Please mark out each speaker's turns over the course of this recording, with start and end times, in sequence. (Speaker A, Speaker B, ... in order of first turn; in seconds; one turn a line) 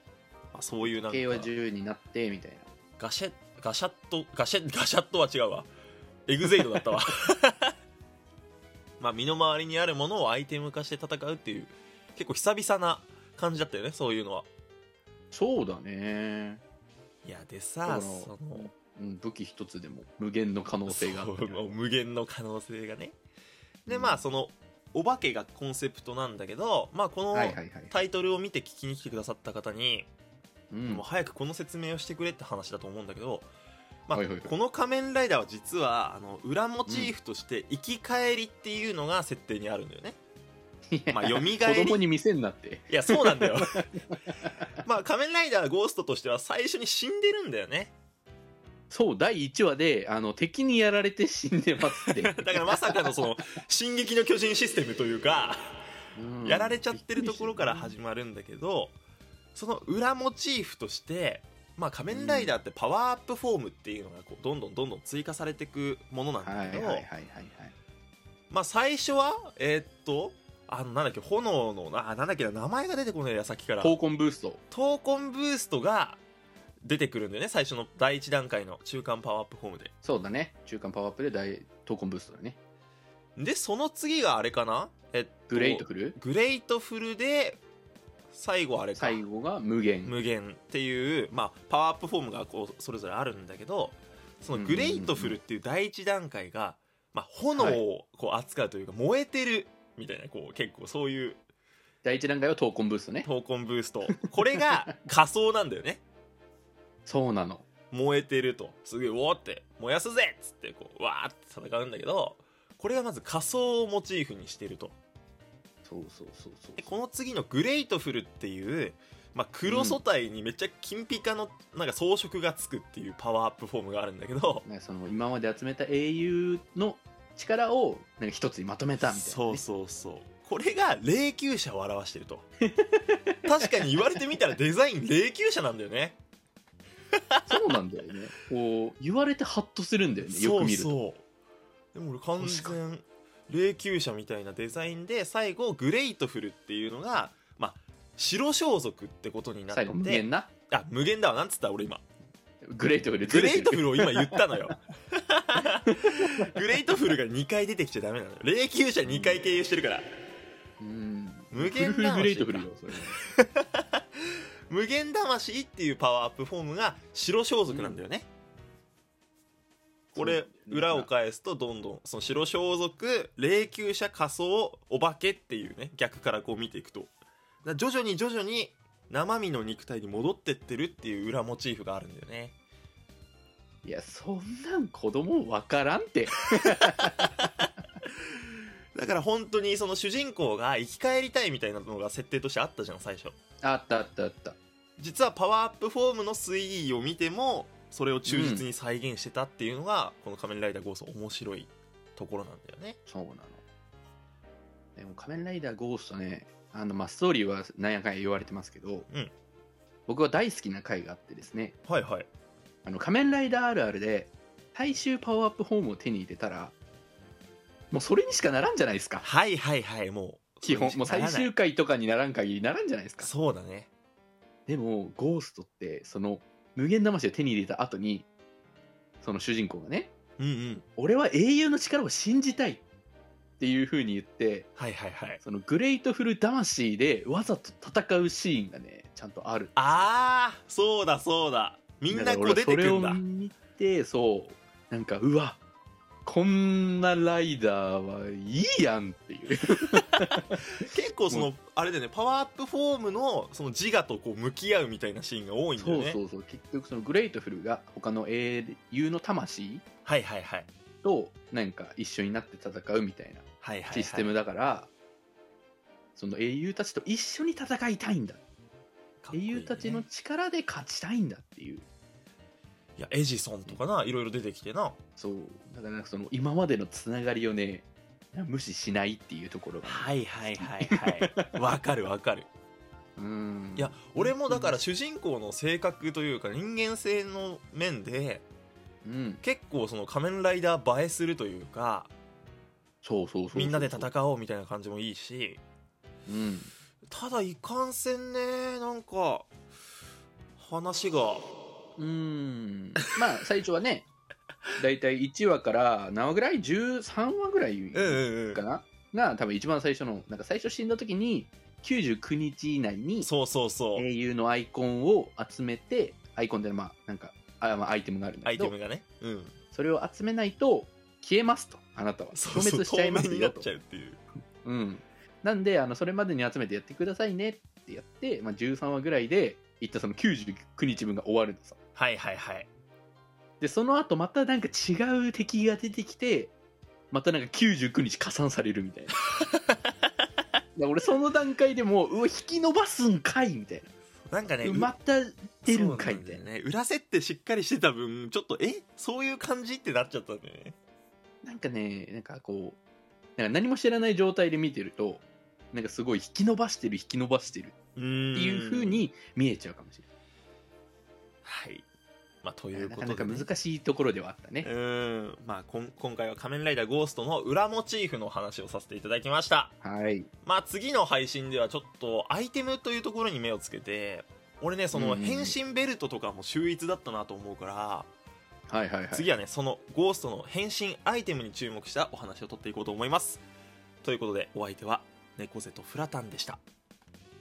Speaker A: 0.5-1.5
Speaker B: 0.9-2.7
Speaker A: 3.0-5.7
Speaker A: 6.3-7.7
Speaker A: 9.0-14.5
Speaker B: 15.3-16.6
Speaker A: 17.2-18.7
Speaker B: 17.9-21.8
Speaker A: 20.9-23.1
Speaker A: 23.9-30.1
Speaker B: 23.9-24.2
Speaker B: 27.3-27.9
Speaker B: 30.7-31.1
Speaker A: 30.9-33.5
Speaker A: 34.1-40.2
Speaker B: 34.1-34.5
Speaker B: 36.9-37.1
Speaker B: 40.9-43.9
Speaker A: 41.1-42.0
Speaker A: 42.9-43.9
Speaker A: 44.8-47.9
Speaker B: 48.9-53.4
Speaker A: 52.1-55.8
Speaker B: 56.1-58.0
Speaker A: 56.4-59.0
Speaker A: 59.5-67.1
Speaker B: 62.1-62.6
Speaker B: 66.4-67.8
Speaker A: 68.5-74.0
Speaker B: 73.8-74.6
Speaker A: 74.7-76.2
Speaker A: 76.8-79.9
Speaker B: 80.0-82.6
Speaker A: 83.4-87.6
Speaker B: 85.5-86.2
Speaker A: 88.3-89.2
Speaker B: 89.0-90.2
Speaker A: 90.0-101.4
Speaker B: 94.5-95.4
Speaker B: 97.6-97.8
Speaker B: 102.0-103.3
Speaker A: 103.2-106.0
Speaker B: 107.1-107.7
Speaker A: 107.9-115.0
Speaker B: 115.8-117.0
Speaker A: 116.8-124.7
Speaker B: 119.7-120.0
Speaker B: 124.7-129.6
Speaker A: 129.0-132.5
Speaker B: 132.6-133.7
Speaker A: 133.4-136.2
Speaker A: 137.1-137.8
Speaker B: 137.5-141.0
Speaker A: 140.3-141.2
Speaker A: 141.9-152.0
Speaker B: 142.4-142.8
Speaker B: 149.7-150.5
Speaker B: 152.7-154.6
Speaker A: 153.2-160.1
Speaker B: 155.8-156.3
Speaker B: 159.1-159.4
Speaker B: 160.8-163.2
Speaker A: 161.5-168.3
Speaker B: 167.7-168.0
Speaker B: 170.2-171.1
Speaker A: 170.2-177.1
Speaker A: 177.6-182.6
Speaker B: 183.8-187.3
Speaker A: 187.1-187.7
Speaker A: 188.9-193.4
Speaker B: 193.6-194.6
Speaker A: 195.0-203.0
Speaker B: 198.3-198.7
Speaker B: 203.1-203.6
Speaker B: 205.0-209.1
Speaker B: 210.1-211.8
Speaker A: 211.9-212.3
Speaker B: 212.8-216.8
Speaker B: 217.9-219.2
Speaker A: 219.2-221.5
Speaker B: 220.6-223.3
Speaker A: 223.2-223.9
Speaker B: 224.7-228.3
Speaker B: 229.2-230.1
Speaker A: 230.4-230.8
Speaker B: 231.0-232.8
Speaker B: 233.6-234.7
Speaker A: 234.8-235.4
Speaker B: 235.4-239.9
Speaker A: 239.8-243.2
Speaker B: 242.1-245.6
Speaker B: 246.3-250.6
Speaker A: 250.4-256.2
Speaker B: 255.8-259.8
Speaker A: 260.1-260.7
Speaker B: 261.0-264.9
Speaker A: 263.6-264.3
Speaker B: 266.2-268.4
Speaker A: 269.2-270.1
Speaker B: 269.3-271.9
Speaker A: 273.0-275.0
Speaker B: 275.2-281.6
Speaker A: 279.9-282.5
Speaker B: 283.2-284.8
Speaker A: 283.8-288.4
Speaker B: 289.1-289.4
Speaker A: 289.4-292.1
Speaker B: 293.0-294.1
Speaker A: 293.5-295.6
Speaker B: 296.3-296.7
Speaker A: 297.1-299.5
Speaker A: 300.6-301.4
Speaker B: 302.0-304.1
Speaker B: 304.8-313.3
Speaker A: 307.9-308.6
Speaker A: 313.2-314.1
Speaker B: 313.9-318.7
Speaker A: 318.4-319.5
Speaker B: 319.7-323.7
Speaker A: 322.3-324.2
Speaker B: 324.6-331.8
Speaker A: 332.0-332.7
Speaker B: 333.6-336.5
Speaker B: 337.1-339.2
Speaker A: 339.4-339.9
Speaker B: 340.8-343.9
Speaker A: 344.3-344.9
Speaker B: 344.6-346.4
Speaker A: 345.6-350.8
Speaker B: 351.4-352.8
Speaker B: 353.4-357.8
Speaker A: 358.0-359.1
Speaker B: 358.3-360.1
Speaker A: 361.4-361.9
Speaker A: 362.4-363.5
Speaker B: 362.7-364.7
Speaker A: 364.6-369.7
Speaker B: 369.8-370.3
Speaker A: 370.4-378.1
Speaker B: 374.9-375.6
Speaker B: 378.7-379.3
Speaker A: 379.1-383.4
Speaker A: 384.0-386.6